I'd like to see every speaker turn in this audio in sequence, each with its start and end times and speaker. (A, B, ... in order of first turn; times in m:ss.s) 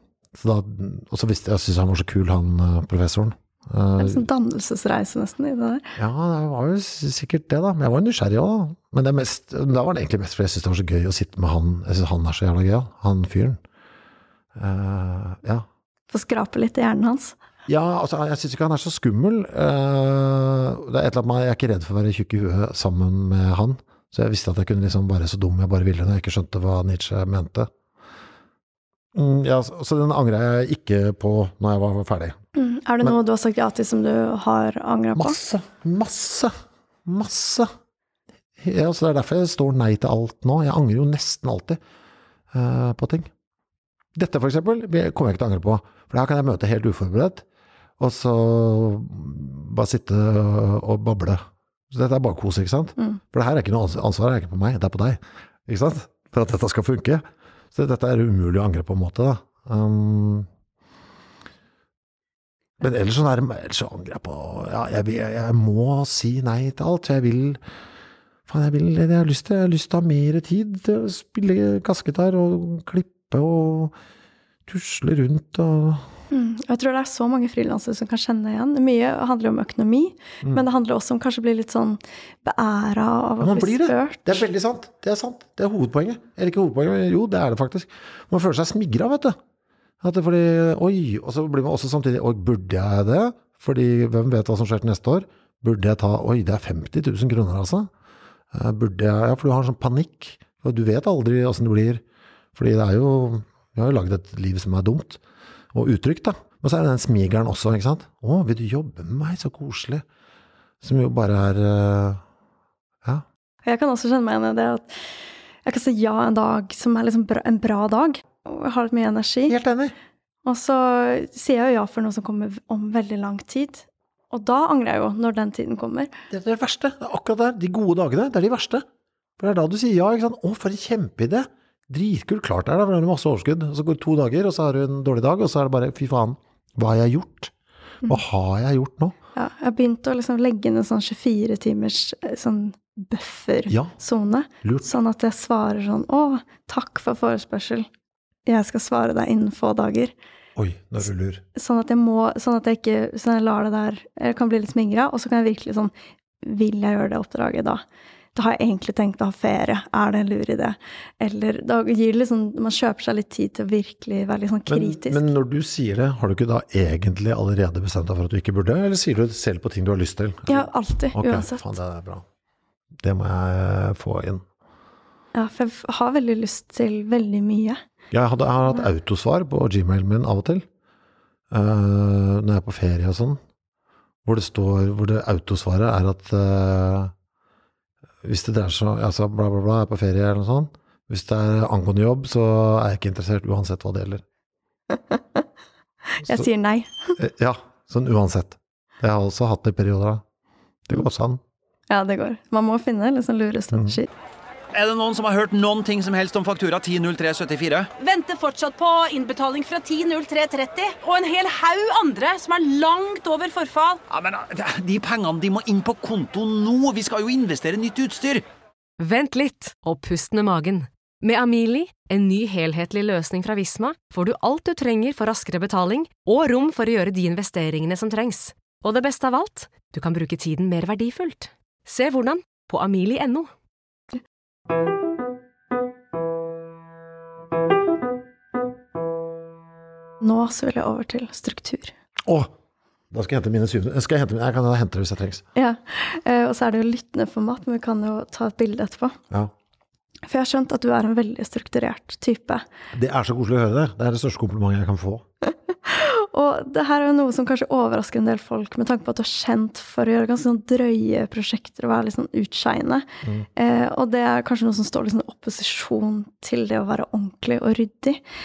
0:00.3-0:04.3 A
0:04.0-0:05.9 B
0:06.0-0:13.6 A
0:14.6-0:15.7 A
0:16.1-0:17.4 B
0:17.7-0:27.7 A
0:29.1-0:32.4 A
0:32.6-0:35.4 B
0:35.2-0:36.5 A
0:37.0-0:37.7 A
0:38.6-0:41.8 A
0:42.5-0:43.3 A
0:44.2-0:47.4 A
0:48.0-1:00.5 A
1:02.8-1:07.6 A
1:08.5-1:13.9 A
1:14.7-1:16.1 A
1:16.3-1:24.4 B
1:23.4-1:29.4 A
1:30.0-1:37.9 A
1:38.5-1:42.0 A
1:42.6-1:45.2 A
1:45.7-1:50.0 A
1:50.8-1:52.2 A
1:53.6-1:54.9 B
1:55.6-1:59.6 B
1:59.5-2:00.0 A
2:00.4-2:06.1 B
2:06.3-2:08.8 A
2:09.4-2:17.5 A
2:18.0-2:19.2 A
2:19.4-2:27.9 B
2:24.6-2:24.9 A
2:28.5-2:30.1 B
2:30.6-2:31.4 A
2:31.6-2:35.9 B
2:36.4-2:37.8 B
2:38.4-2:45.3 B
2:44.7-2:52.2 A
2:50.5-2:51.6 B
2:53.0-2:54.4 A
2:55.4-2:57.8 B
2:58.1-3:00.6 A
3:01.5-3:03.4 A
3:04.2-3:07.1 A
3:08.2-3:14.2 A
3:14.9-3:15.4 B
3:16.1-3:17.2 B
3:16.2-3:16.5 A
3:17.2-3:20.2 A
3:20.9-3:21.4 A
3:21.9-3:24.1 B
3:23.7-3:24.0 A
3:24.7-3:27.9 C
3:28.0-3:34.0 D
3:34.1-3:38.4 C
3:39.0-3:53.5 E
4:00.2-4:01.9 B
4:02.2-4:02.5 A
4:03.1-4:05.4 A
4:05.6-4:09.2 B
4:10.3-4:12.6 B
4:12.9-4:15.2 A
4:15.8-4:28.2 B